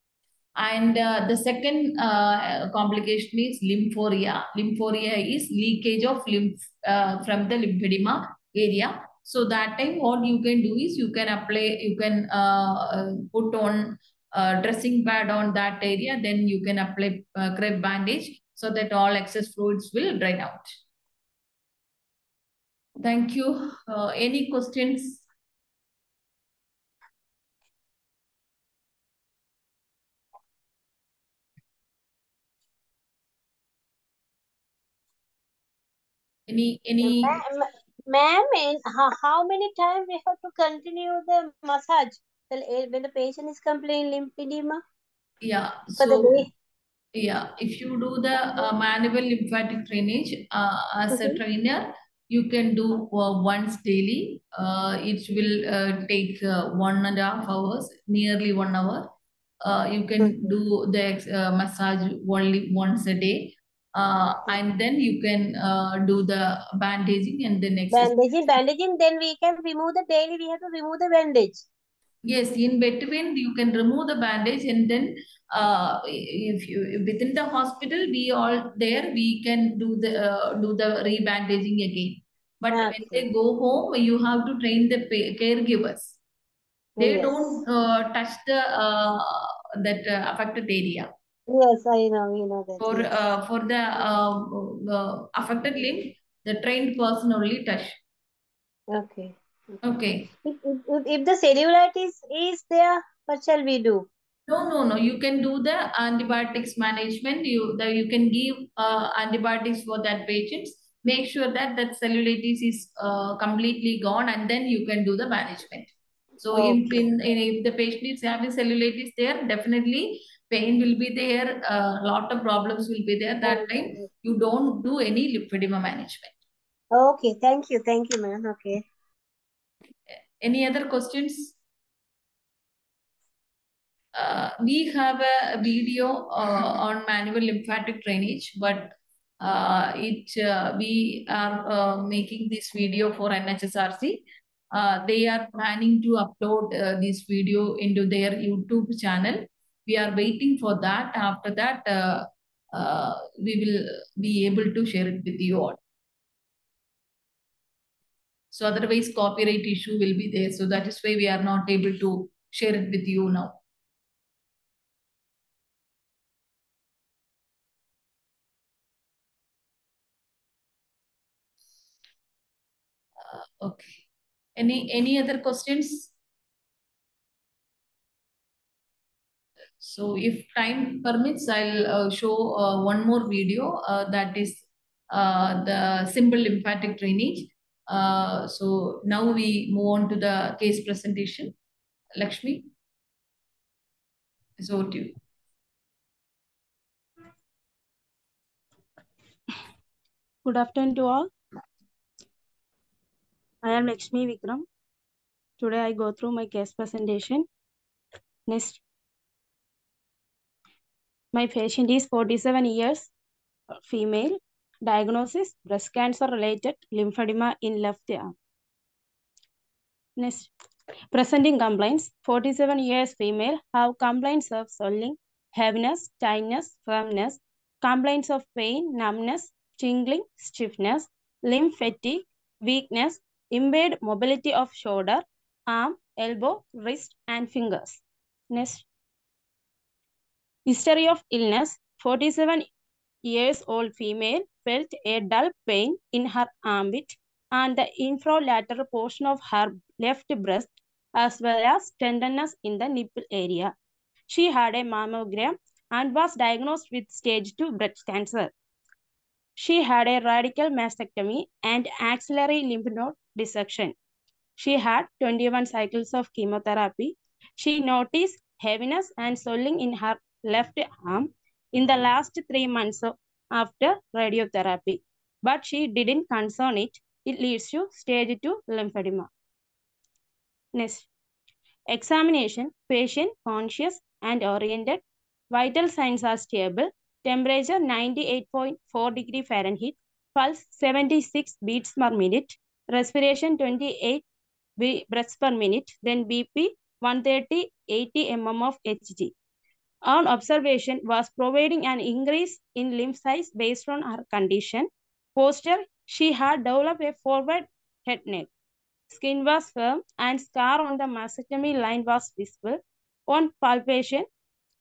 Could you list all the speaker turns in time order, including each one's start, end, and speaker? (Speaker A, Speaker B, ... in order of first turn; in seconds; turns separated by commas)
Speaker A: 0.6-20.8, Speaker A: 23.0-25.2, Speaker A: 36.5-37.4, Speaker B: 37.0-44.8, Speaker A: 45.4-46.4, Speaker B: 46.0-46.5, Speaker A: 47.1-59.1, Speaker B: 51.1-51.4, Speaker A: 59.6-68.1, Speaker B: 60.2-60.5, Speaker B: 67.9-71.6, Speaker A: 72.2-86.2, Speaker B: 82.7-83.3, Speaker B: 87.0-87.6, Speaker A: 87.0-91.1, Speaker B: 91.5-93.1, Speaker A: 92.8-98.0, Speaker B: 98.9-99.4, Speaker A: 99.8-100.3, Speaker B: 100.4-104.0, Speaker A: 104.5-126.3, Speaker B: 116.5-117.1, Speaker B: 123.4-124.0, Speaker B: 126.9-128.8, Speaker A: 130.4-131.5, Speaker A: 134.1-155.8, Speaker A: 158.5-163.6, Speaker A: 173.2-174.0, Speaker A: 174.6-176.1, Speaker A: 179.8-191.5, Speaker A: 192.2-192.7, Speaker A: 194.6-195.2, Speaker C: 200.4-201.3, Speaker C: 203.6-204.6, Speaker C: 205.6-207.5, Speaker C: 208.5-208.8, Speaker C: 211.3-213.1, Speaker C: 213.8-218.3, Speaker C: 220.2-220.5, Speaker C: 221.1-238.8, Speaker C: 240.7-242.7, Speaker C: 243.2-253.7, Speaker C: 254.3-258.5, Speaker C: 259.6-263.9, Speaker C: 264.6-279.3, Speaker C: 280.7-281.1, Speaker C: 281.9-294.2, Speaker C: 294.8-299.3, Speaker C: 300.1-308.5, Speaker C: 309.1-314.3